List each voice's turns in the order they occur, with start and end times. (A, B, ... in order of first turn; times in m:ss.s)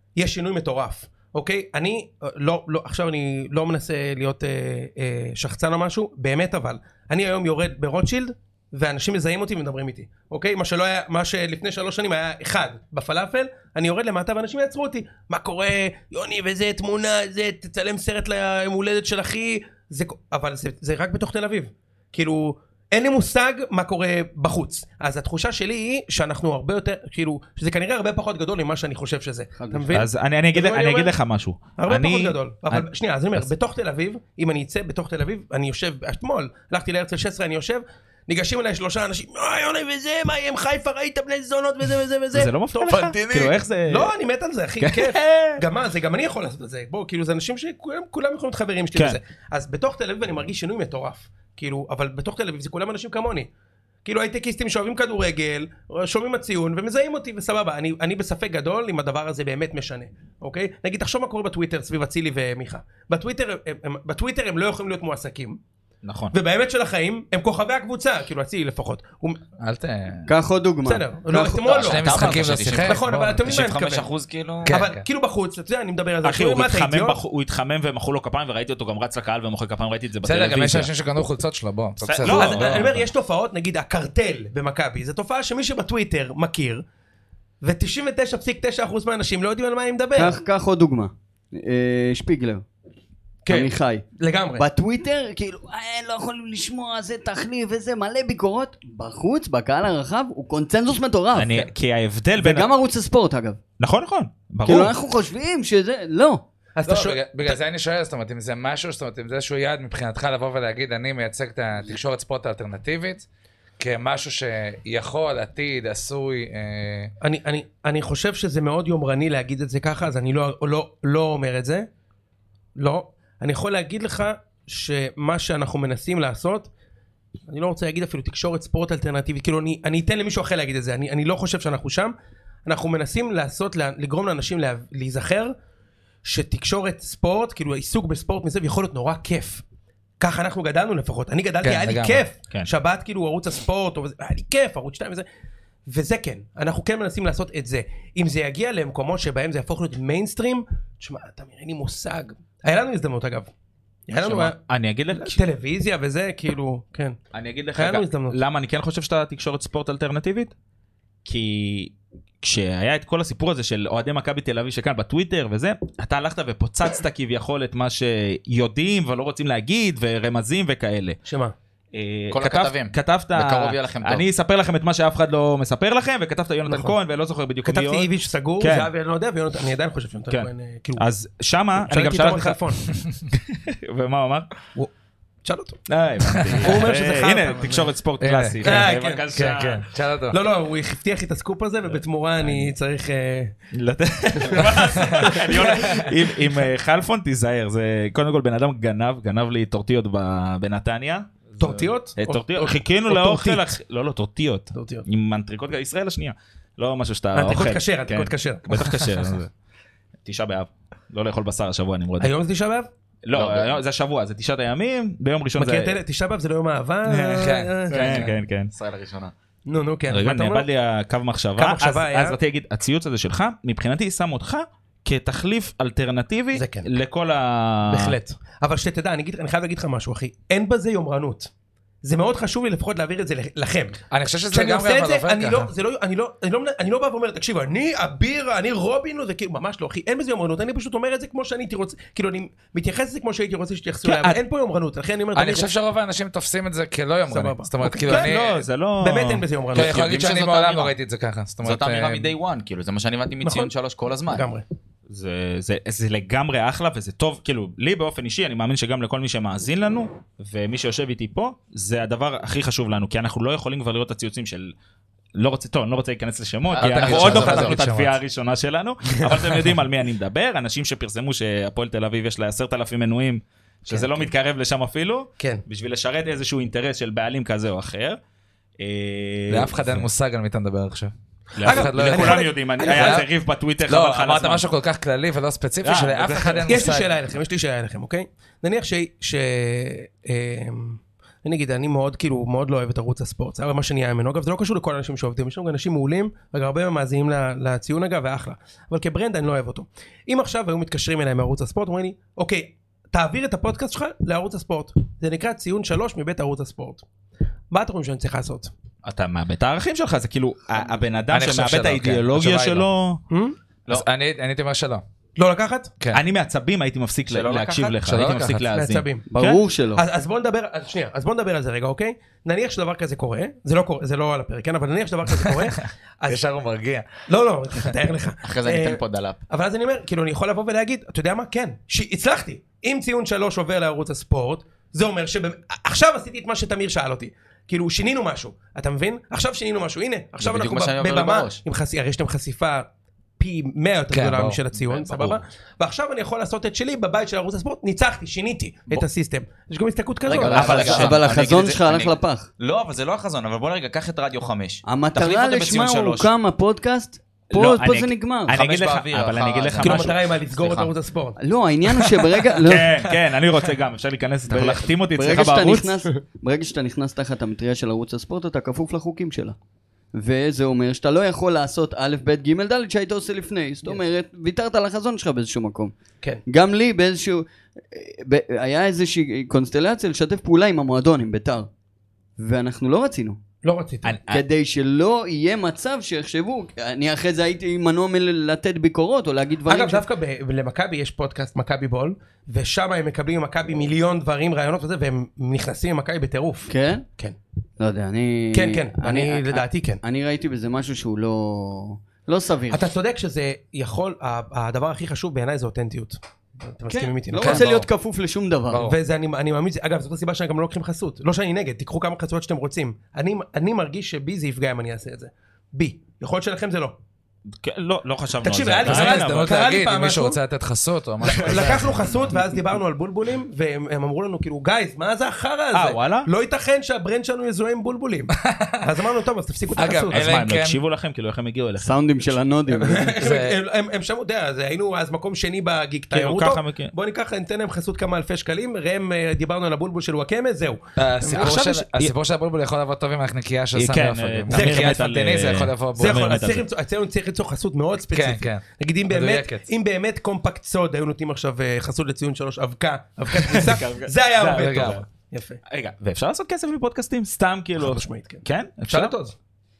0:00.2-0:31.1 A
0:29.6-0:29.9 B
0:29.9-0:33.5 C
0:31.8-0:43.1 A
0:42.3-0:44.1 C
0:42.9-0:43.6 D
0:43.9-0:53.5 A
0:44.8-0:45.6 C
0:54.0-1:05.6 A
1:06.0-1:06.4 C
1:06.3-1:09.4 A
1:09.6-1:10.3 D
1:10.3-1:11.0 B
1:10.9-1:14.1 A
1:11.3-1:13.6 D
1:11.6-1:14.8 E
1:14.6-1:15.0 D
1:14.7-1:17.2 A
1:16.2-1:20.9 C
1:20.2-1:22.9 D
1:22.0-1:23.0 C
1:22.3-1:26.8 A
1:27.6-1:30.4 A
1:30.2-1:32.6 B
1:33.4-1:34.6 A
1:33.5-1:41.7 B
1:41.4-1:42.7 C
1:42.4-1:43.6 B
1:43.8-1:44.9 C
1:44.6-1:46.4 B
1:46.8-1:47.6 A
1:46.8-1:53.3 D
1:53.8-1:57.1 D
1:57.2-2:01.9 A
2:02.8-2:06.7 A
2:07.5-2:12.1 A
2:12.7-2:15.5 A
2:16.2-2:19.6 A
2:20.2-2:25.3 A
2:21.6-2:22.2 D
2:25.9-2:33.5 A
2:34.1-2:34.6 A
2:34.2-2:35.4 C
2:35.1-2:37.2 A
2:37.3-2:40.5 C
2:37.8-2:38.4 A
2:41.3-2:51.2 C
2:51.3-2:51.5 A
2:51.9-2:58.1 C
2:52.3-2:54.3 E
2:56.7-2:56.9 A
2:57.7-3:01.0 A
2:58.6-2:58.9 C
3:00.3-3:02.6 C
3:01.8-3:02.8 A
3:03.3-3:04.5 C
3:05.4-3:05.8 A
3:05.9-3:09.9 C
3:06.3-3:06.7 D
3:06.6-3:07.9 A
3:08.2-3:10.4 D
3:08.6-3:09.3 A
3:10.3-3:13.5 A
3:12.4-3:12.7 C
3:13.7-3:21.4 C
3:14.3-3:16.5 A
3:15.0-3:16.1 D
3:21.6-3:23.6 A
3:22.2-3:29.5 C
3:24.7-3:25.0 A
3:27.3-3:28.7 A
3:30.2-3:32.3 C
3:32.2-3:32.9 A
3:33.2-3:36.0 C
3:33.3-3:33.8 E
3:35.6-3:38.3 A
3:37.0-3:38.7 C
3:37.4-3:38.3 D
3:38.7-3:39.3 E
3:39.7-3:40.7 A
3:40.1-3:48.2 C
3:41.6-3:42.4 A
3:46.5-3:46.9 A
3:47.9-3:51.5 A
3:52.0-3:54.0 A
3:54.1-3:55.7 D
3:54.5-4:05.7 A
4:04.0-4:04.4 D
4:05.3-4:08.6 D
4:07.3-4:10.0 A
4:08.1-4:09.4 C
4:09.7-4:10.9 E
4:09.7-4:12.3 D
4:11.6-4:14.5 E
4:13.4-4:13.7 A
4:14.3-4:14.6 A
4:15.1-4:24.8 C
4:25.4-4:38.2 C
4:26.7-4:27.8 E
4:26.8-4:28.2 D
4:33.9-4:34.3 A
4:38.8-4:40.0 C
4:39.5-4:41.1 D
4:41.6-4:44.6 C
4:41.6-4:43.2 A
4:41.6-4:43.3 D
4:43.9-4:47.1 D
4:45.8-4:46.8 C
4:46.6-5:07.0 A
5:07.7-5:08.7 A
5:09.0-5:13.2 C
5:11.3-5:12.9 D
5:13.3-5:13.6 A
5:13.9-5:15.0 D
5:15.4-5:15.9 A
5:16.1-5:19.6 C
5:17.3-5:18.0 E
5:18.0-5:18.7 D
5:18.7-5:19.3 A
5:19.3-5:20.0 B
5:19.9-5:26.4 A
5:26.3-5:27.2 D
5:27.3-5:42.9 A
5:28.4-5:29.4 E
5:40.4-5:41.6 E
5:43.4-5:51.1 A
5:44.1-5:44.6 D
5:44.9-5:45.4 E
5:50.3-5:56.3 E
5:50.3-5:52.5 B
5:50.4-5:51.2 C
5:54.9-5:58.6 B
5:57.5-6:00.9 C
5:58.5-6:00.9 E
5:59.8-6:01.4 A
6:01.4-6:02.9 B
6:02.6-6:06.0 C
6:04.5-6:09.6 B
6:10.2-6:16.0 B
6:16.5-6:21.7 B
6:22.4-6:23.4 B
6:23.6-6:24.2 A
6:24.0-6:24.4 C
6:24.3-6:30.0 B
6:29.7-6:37.4 A
6:36.7-6:37.1 B
6:37.8-6:42.9 B
6:38.5-6:40.0 A
6:42.7-6:47.7 A
6:46.9-6:48.9 B
6:47.4-6:47.9 D
6:48.7-6:49.0 D
6:48.8-6:57.0 A
6:57.6-6:59.5 C
6:58.4-7:00.4 A
6:58.8-7:02.0 D
7:01.3-7:10.2 A
7:05.7-7:06.3 C
7:08.4-7:08.8 D
7:09.8-7:10.8 D
7:10.1-7:11.9 C
7:11.8-7:13.2 B
7:12.7-7:21.6 A
7:13.2-7:13.6 D
7:16.1-7:16.9 C
7:21.0-7:26.3 D
7:21.2-7:22.1 C
7:23.8-7:26.7 C
7:24.5-7:24.9 A
7:26.0-7:35.6 A
7:28.1-7:29.7 D
7:33.3-7:35.0 C
7:34.5-7:35.0 D
7:35.7-7:39.1 C
7:37.8-7:39.4 A